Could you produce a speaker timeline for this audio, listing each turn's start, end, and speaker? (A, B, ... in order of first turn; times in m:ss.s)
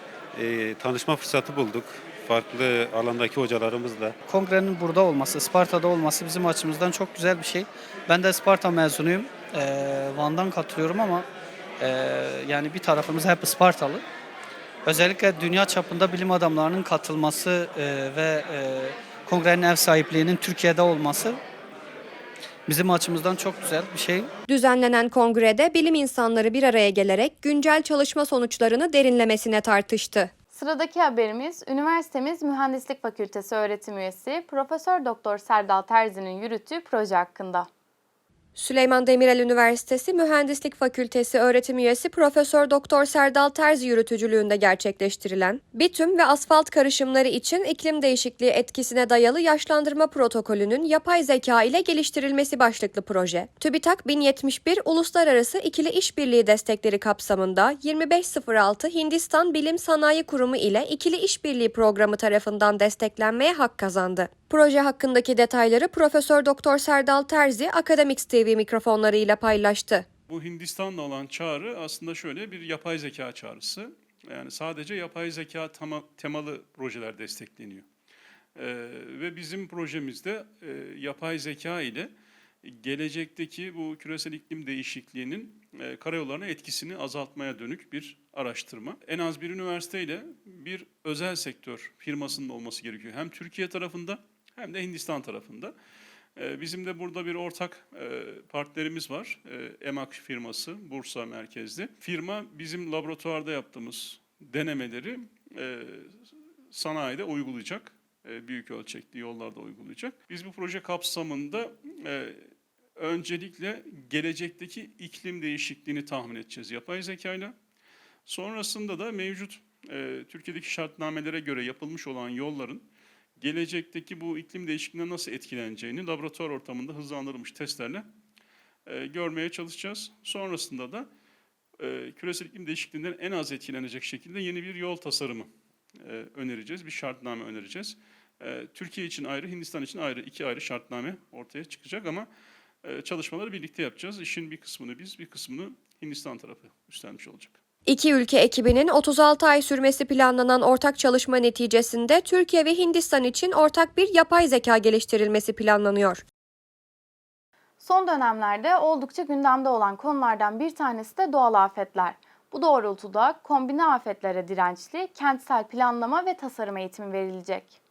0:00.4-0:04.1 A
0:04.3-0:11.3 B
0:11.8-0:14.0 B
0:14.9-0:21.4 B
0:22.7-0:24.3 B
0:24.5-0:30.3 C
0:30.6-0:37.7 D
0:38.6-1:10.0 C
1:10.3-1:17.8 E
1:18.6-1:22.1 E
1:22.6-1:35.7 E
1:36.4-1:46.1 E
1:46.7-1:52.4 E
1:53.0-1:57.5 E
1:58.3-2:02.9 E
2:03.4-2:08.1 E
2:08.9-2:11.1 E
2:11.8-2:15.5 E
2:16.0-2:22.3 E
2:22.8-2:27.6 E
2:27.9-2:36.2 C
2:37.8-2:47.7 D